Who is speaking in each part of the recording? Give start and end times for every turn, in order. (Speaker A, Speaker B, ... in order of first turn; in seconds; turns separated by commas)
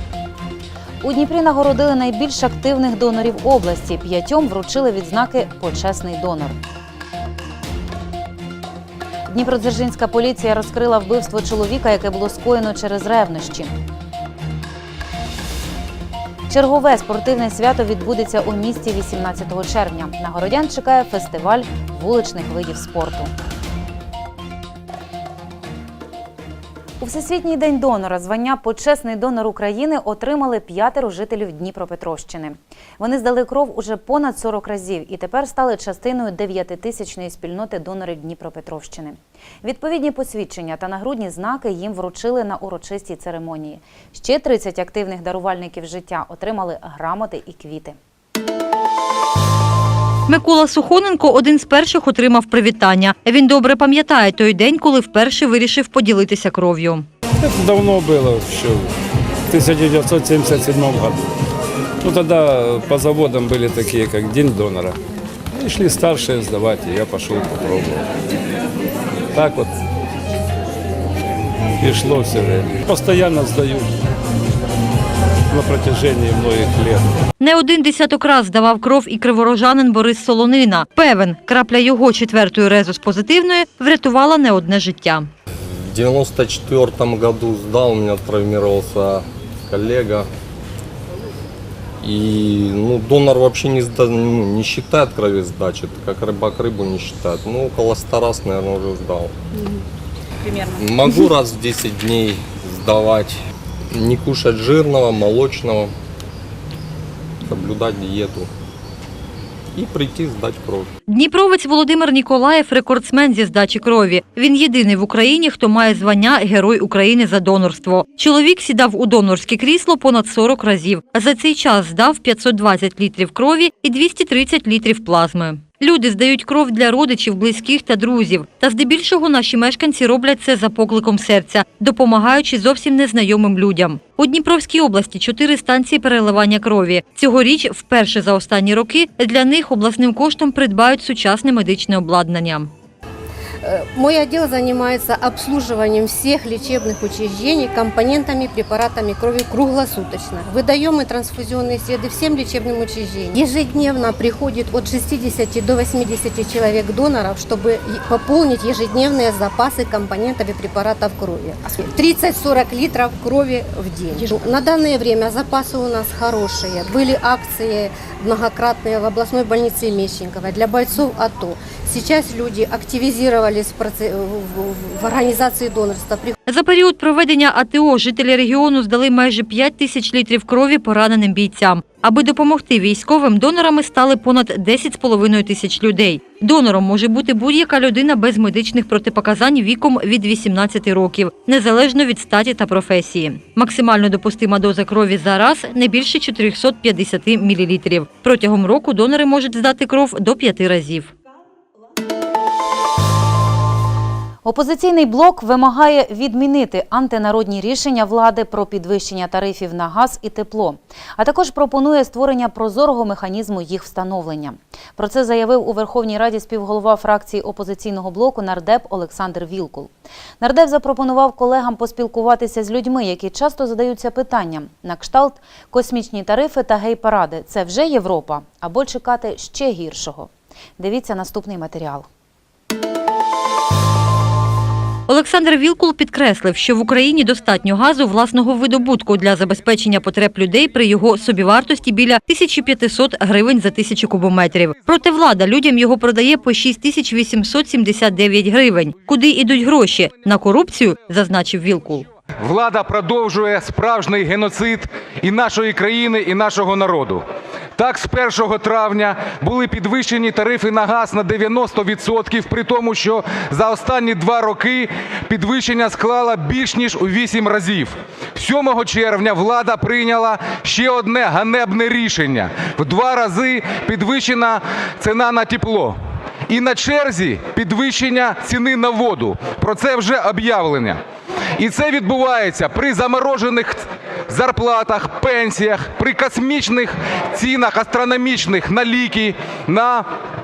Speaker A: 1.0-6.6, Speaker A: 9.3-13.7, Speaker A: 16.5-23.3, Speaker A: 27.0-48.0, Speaker B: 50.3-57.1, Speaker C: 57.4-58.9, Speaker C: 59.5-61.2, Speaker C: 62.0-65.0, Speaker C: 65.6-68.1, Speaker C: 69.3-69.7, Speaker C: 71.8-73.9, Speaker C: 75.5-77.1, Speaker B: 77.4-85.3, Speaker D: 85.9-90.3, Speaker D: 92.0-99.3, Speaker D: 100.8-103.4, Speaker D: 103.9-105.9, Speaker D: 107.5-108.5, Speaker D: 109.8-110.9, Speaker B: 111.1-142.7, Speaker E: 143.6-176.3, Speaker B: 176.5-201.1, Speaker A: 204.4-232.1, Speaker B: 235.1-252.0, Speaker F: 252.4-257.2, Speaker F: 257.8-275.9, Speaker F: 276.5-281.0, Speaker F: 281.6-290.1